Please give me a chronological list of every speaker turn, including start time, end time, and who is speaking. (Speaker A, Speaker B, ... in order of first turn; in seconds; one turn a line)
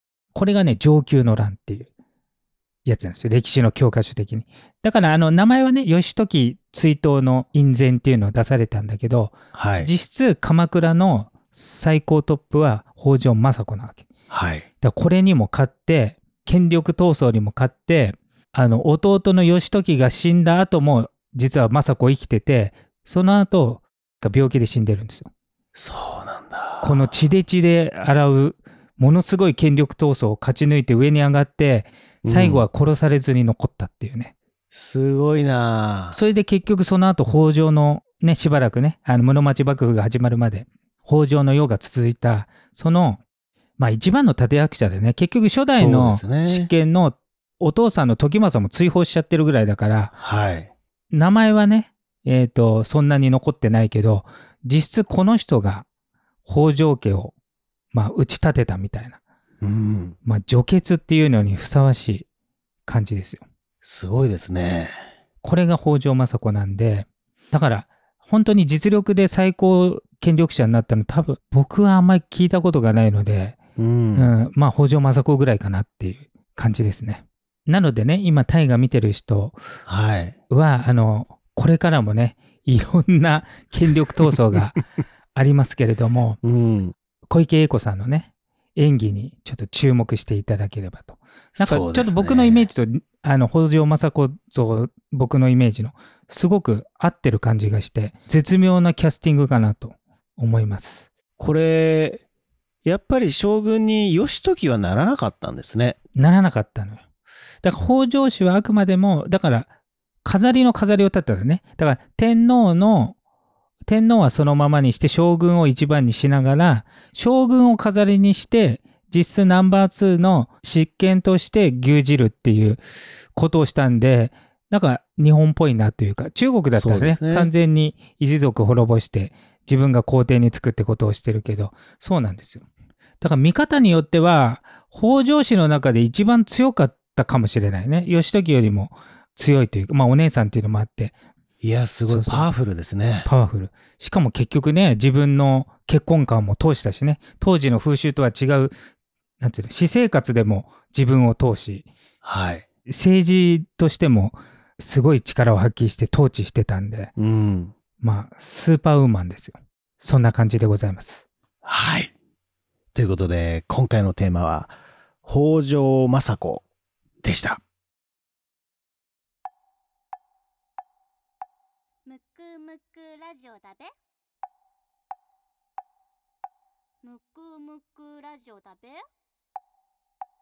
Speaker A: 0.3-1.9
Speaker A: 2.8-14.1
Speaker B: 9.5-9.9
Speaker B: 14.3-14.7
Speaker A: 14.8-25.3
Speaker B: 25.7-27.1
Speaker A: 26.8-34.3
Speaker B: 32.2-32.6
Speaker B: 34.7-36.2
Speaker A: 36.1-43.2
Speaker A: 43.8-50.1
Speaker B: 45.7-46.7
Speaker B: 50.2-50.7
Speaker A: 51.1-55.8
Speaker A: 56.4-57.3
Speaker A: 57.9-59.2
Speaker B: 59.6-60.1
Speaker A: 60.2-62.2
Speaker A: 62.9-63.4
Speaker B: 63.8-64.9
Speaker A: 65.4-73.6
Speaker B: 73.8-74.3
Speaker A: 74.2-79.6
Speaker B: 79.9-80.3
Speaker A: 80.5-84.8
Speaker A: 85.3-86.4
Speaker B: 86.4-86.9
Speaker A: 87.3-101.1
Speaker B: 91.5-92.7
Speaker B: 101.4-102.2
Speaker B: 102.8-106.0
Speaker A: 106.2-107.0
Speaker A: 107.6-109.7
Speaker A: 110.2-113.2
Speaker A: 113.9-122.8
Speaker A: 123.3-132.6
Speaker B: 126.7-127.5
Speaker A: 133.2-141.1
Speaker B: 141.6-143.3
Speaker A: 142.0-142.5
Speaker A: 143.2-148.7
Speaker A: 149.4-151.9
Speaker B: 152.2-152.6
Speaker A: 152.9-157.1
Speaker B: 157.2-157.7
Speaker A: 158.0-161.2
Speaker B: 161.6-162.1
Speaker B: 162.9-166.6
Speaker B: 167.2-167.6
Speaker C: 172.1-173.9
Speaker C: 177.0-179.0